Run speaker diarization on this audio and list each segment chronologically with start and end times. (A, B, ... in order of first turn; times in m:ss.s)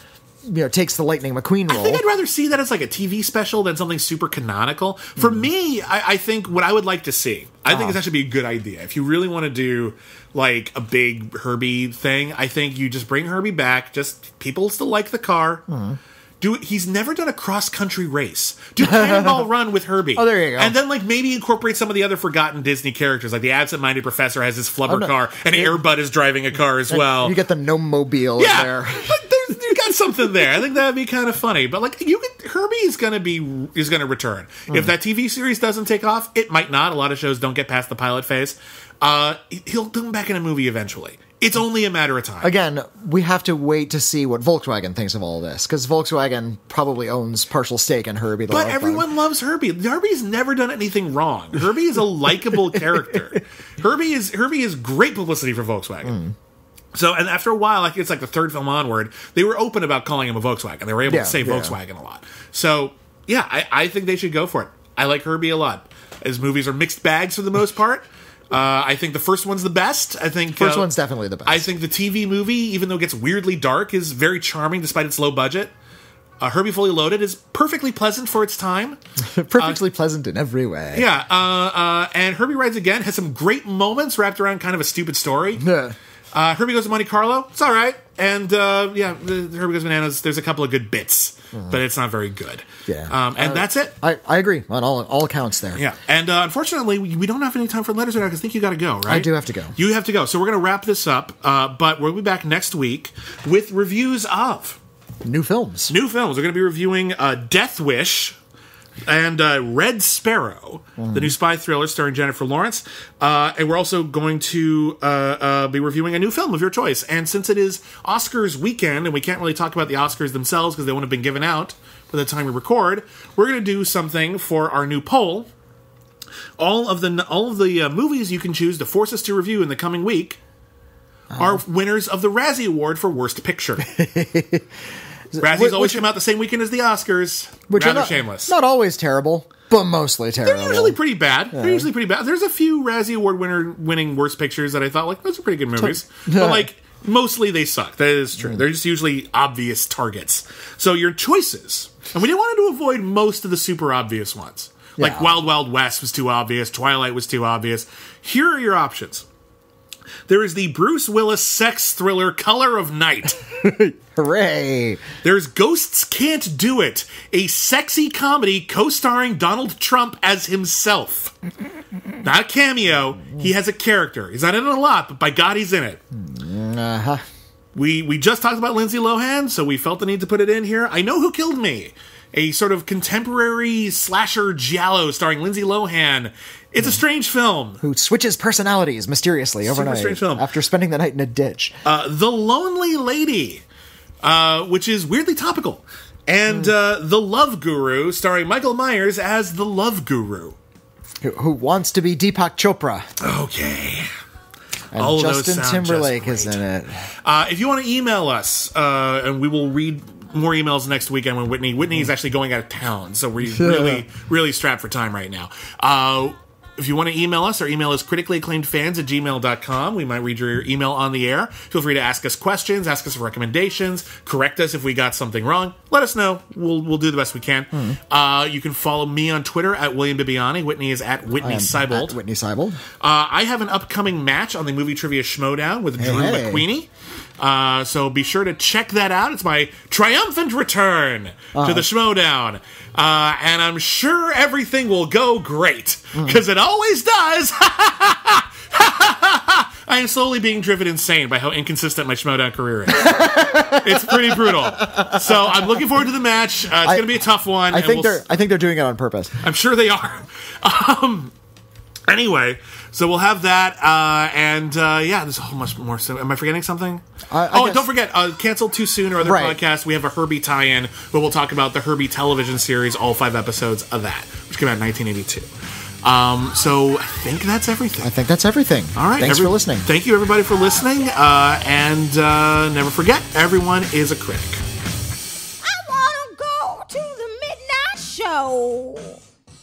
0:00.4-0:02.0 A
0:01.7-0:15.7 B
0:07.7-0:08.0 A
0:15.7-0:16.0 A
0:16.4-0:27.4 B
0:18.8-0:19.5 A
0:20.2-0:20.7 A
0:24.9-0:25.8 A
0:26.9-0:29.9 A
0:28.4-0:42.5 B
0:42.4-0:49.1 A
0:48.5-0:56.2 B
0:52.8-0:53.2 A
0:56.0-0:56.4 A
0:56.9-1:10.9 B
1:01.1-1:01.8 A
1:10.6-1:11.7 A
1:11.4-1:15.7 B
1:16.4-1:19.0 B
1:19.2-1:21.1 A
1:20.9-1:25.7 B
1:25.6-1:26.0 A
1:26.3-1:33.9 B
1:32.9-1:35.8 A
1:35.8-1:44.8 B
1:39.1-1:39.8 A
1:45.2-1:45.9 A
1:45.9-1:48.4 B
1:49.0-2:05.5 B
1:51.0-1:51.3 A
2:06.6-2:10.4 B
2:11.3-2:11.6 A
2:11.4-2:13.9 B
2:13.9-2:14.7 A
2:15.3-2:16.0 A
2:15.4-2:18.5 B
2:17.7-2:21.0 A
2:20.4-2:39.3 B
2:21.5-2:21.9 A
2:25.8-2:26.7 A
2:28.4-2:28.6 A
2:35.0-2:35.3 A
2:40.3-2:43.4 B
2:43.4-2:45.0 A
2:45.2-2:51.3 B
2:52.2-2:56.0 B
2:56.1-2:57.2 A
2:57.8-3:07.8 B
3:07.8-3:11.8 A
3:09.6-3:10.5 B
3:11.8-3:13.6 B
3:14.2-3:20.6 B
3:21.2-3:23.1 A
3:23.2-3:24.1 B
3:24.9-3:27.1 A
3:25.0-3:26.6 B
3:27.2-3:52.2 B
3:33.5-3:34.0 A
3:47.7-3:48.0 A
3:51.4-3:52.8 A
3:53.0-4:18.2 B
3:56.0-3:56.7 A
4:01.6-4:01.9 A
4:12.9-4:15.7 A
4:16.8-4:17.1 A
4:17.7-4:19.4 A
4:19.4-4:21.3 B
4:22.1-4:35.5 B
4:27.3-4:27.9 A
4:29.2-4:29.6 A
4:36.0-4:38.1 B
4:38.0-4:39.9 A
4:39.0-4:44.6 B
4:45.6-4:49.2 C